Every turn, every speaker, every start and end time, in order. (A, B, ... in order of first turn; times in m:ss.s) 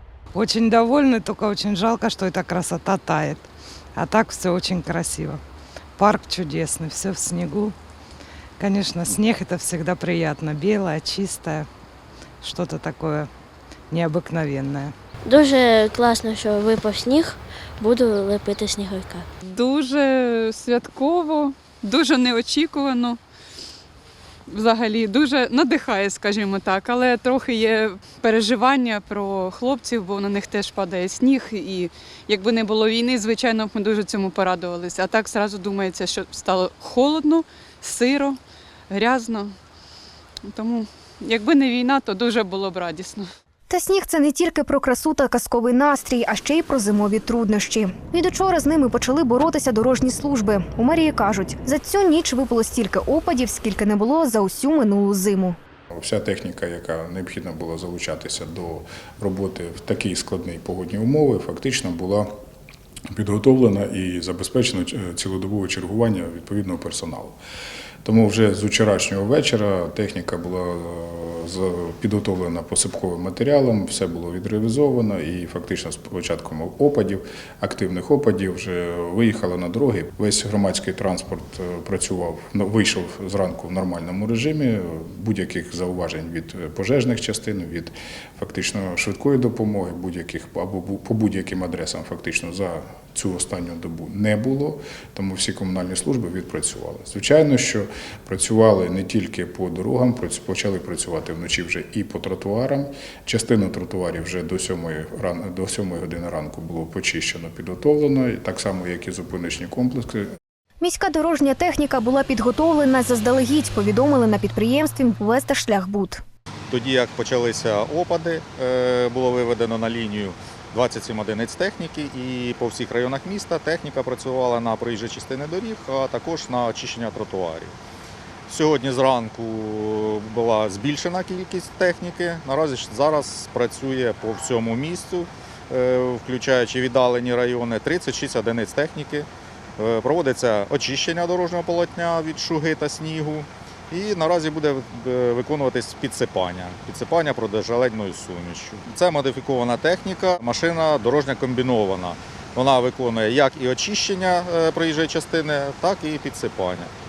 0:00.3-0:05.4 A
0:06.0-0:07.8 A
0:08.6-0:11.7 A
0:12.4-0:13.3 A
0:13.9-0:14.9 A
0:15.2-0:19.3 B
0:19.4-0:23.2 C
0:24.5-0:38.4 C
0:38.9-0:39.5 C
0:40.5-0:43.3 C
0:43.7-0:55.6 D
0:56.0-1:02.3 E
1:03.1-1:07.4 E
1:08.0-1:50.3 E
1:50.8-1:56.2 D
1:56.7-2:07.7 F
2:08.5-2:36.9 F